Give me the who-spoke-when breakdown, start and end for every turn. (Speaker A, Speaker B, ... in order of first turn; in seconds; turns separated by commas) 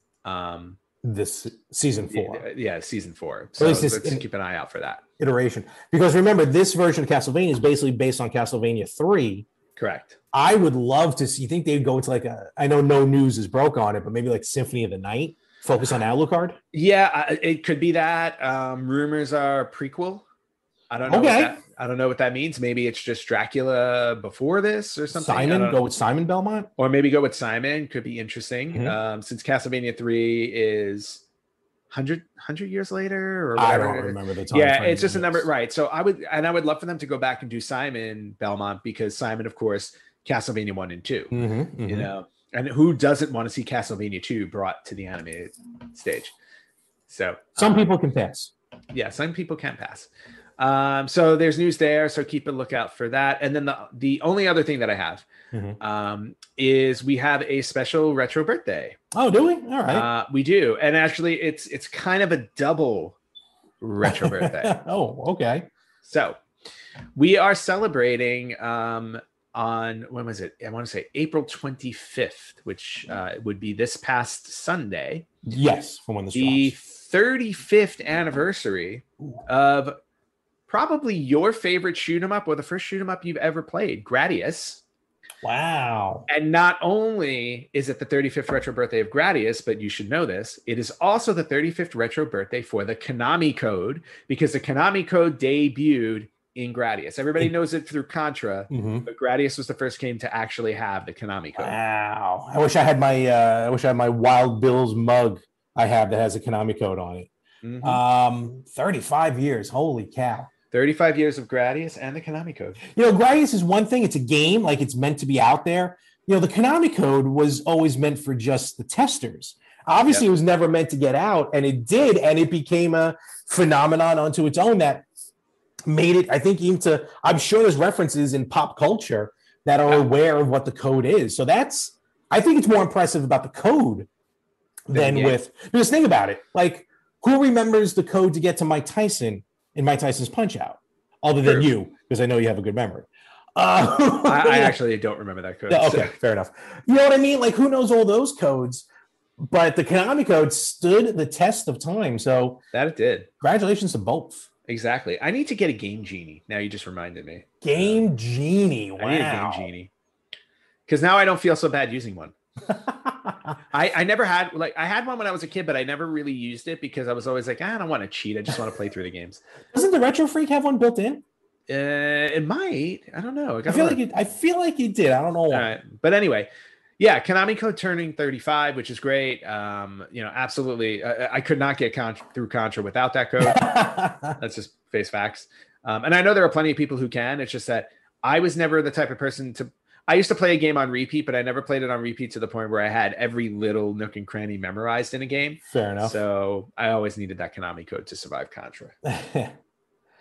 Speaker A: 0.2-0.8, Speaker B: 1.0-2.5, Speaker A: 2.1-5.0, Speaker B: 3.6-4.2, Speaker B: 5.2-9.5, Speaker A: 9.8-10.2, Speaker B: 10.3-16.6, Speaker A: 16.7-20.3, Speaker A: 20.9-25.8, Speaker B: 21.1-21.6, Speaker B: 25.1-26.7, Speaker A: 26.8-31.2, Speaker A: 31.9-41.3, Speaker B: 33.6-35.5, Speaker B: 41.3-42.1, Speaker A: 41.9-46.3, Speaker A: 47.1-47.9, Speaker B: 47.6-48.5, Speaker A: 48.9-55.3, Speaker B: 55.5-55.8, Speaker A: 55.8-59.0, Speaker B: 59.1-60.1, Speaker A: 59.9-63.2, Speaker A: 63.8-64.8, Speaker B: 64.0-65.7, Speaker A: 66.0-66.4, Speaker A: 67.2-75.3, Speaker B: 75.5-76.7, Speaker A: 76.3-80.0, Speaker A: 80.7-84.8, Speaker B: 85.4-86.3, Speaker A: 86.3-101.8, Speaker B: 98.7-99.0, Speaker B: 101.6-107.3, Speaker A: 107.6-108.0, Speaker B: 107.8-110.5, Speaker A: 110.7-112.8, Speaker B: 112.9-125.1, Speaker B: 125.9-134.1, Speaker B: 134.9-144.8, Speaker A: 134.9-135.4, Speaker A: 141.4-141.7, Speaker A: 144.3-146.1, Speaker B: 145.7-148.9, Speaker B: 149.4-152.6, Speaker A: 152.7-153.3, Speaker B: 153.4-154.5, Speaker A: 154.7-158.0, Speaker B: 157.6-159.7, Speaker A: 159.0-159.9, Speaker A: 160.9-162.3, Speaker B: 162.7-163.5, Speaker A: 163.7-169.4, Speaker B: 169.7-171.2, Speaker A: 171.7-174.0, Speaker B: 173.7-175.7, Speaker A: 175.5-176.5, Speaker A: 177.0-183.8, Speaker B: 183.4-184.4, Speaker A: 184.4-198.9, Speaker B: 195.7-196.1, Speaker B: 199.0-199.6